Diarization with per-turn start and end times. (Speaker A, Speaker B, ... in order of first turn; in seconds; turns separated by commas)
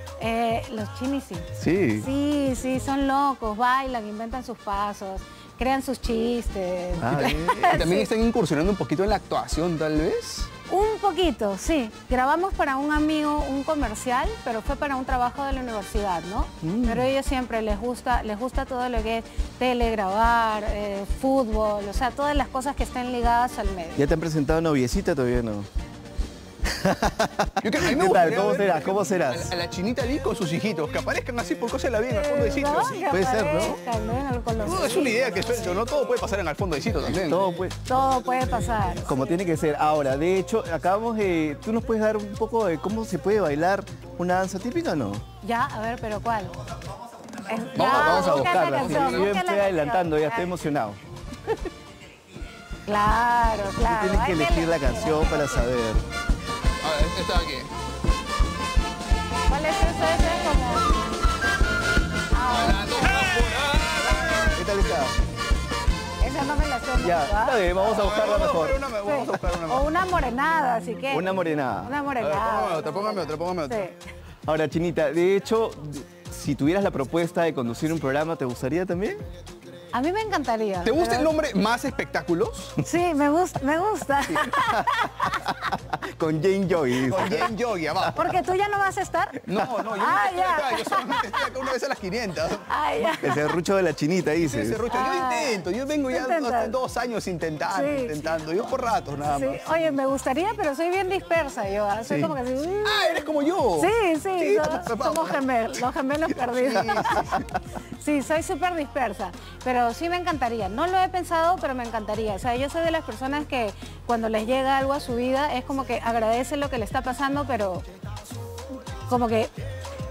Speaker A: 0.2-8.1, Speaker B: 1.6-2.1, Speaker B: 7.0-7.9, Speaker C: 7.1-10.5, Speaker A: 10.7-24.1, Speaker B: 16.6-17.1, Speaker B: 24.0-25.7, Speaker B: 26.6-29.5, Speaker C: 27.6-33.0, Speaker A: 32.1-35.8, Speaker B: 33.0-33.8, Speaker C: 34.6-37.4, Speaker B: 37.1-37.8, Speaker A: 37.9-39.2, Speaker B: 39.0-45.2, Speaker A: 45.4-46.6, Speaker A: 47.5-50.5, Speaker C: 47.7-49.3, Speaker B: 47.8-51.0, Speaker A: 52.9-55.7, Speaker B: 53.8-56.0, Speaker C: 56.8-57.7, Speaker A: 59.5-61.0, Speaker A: 62.3-64.6, Speaker C: 62.5-64.7, Speaker B: 64.5-65.2, Speaker A: 66.2-67.7, Speaker B: 67.0-68.8, Speaker C: 67.8-69.9, Speaker A: 69.0-74.0, Speaker B: 71.1-71.9, Speaker C: 72.2-73.8, Speaker B: 74.5-79.2, Speaker A: 79.9-81.3, Speaker C: 80.8-82.8, Speaker A: 82.8-85.6, Speaker B: 84.3-87.5, Speaker C: 87.0-88.3, Speaker A: 88.1-91.6, Speaker C: 89.4-92.7, Speaker A: 92.7-93.6, Speaker B: 93.2-94.8, Speaker C: 94.4-100.0, Speaker A: 94.9-96.8, Speaker A: 97.7-98.2, Speaker A: 99.2-107.5, Speaker B: 102.1-102.3, Speaker C: 102.8-105.5, Speaker C: 106.3-107.5, Speaker B: 107.0-107.2, Speaker A: 108.0-117.8, Speaker A: 119.1-119.5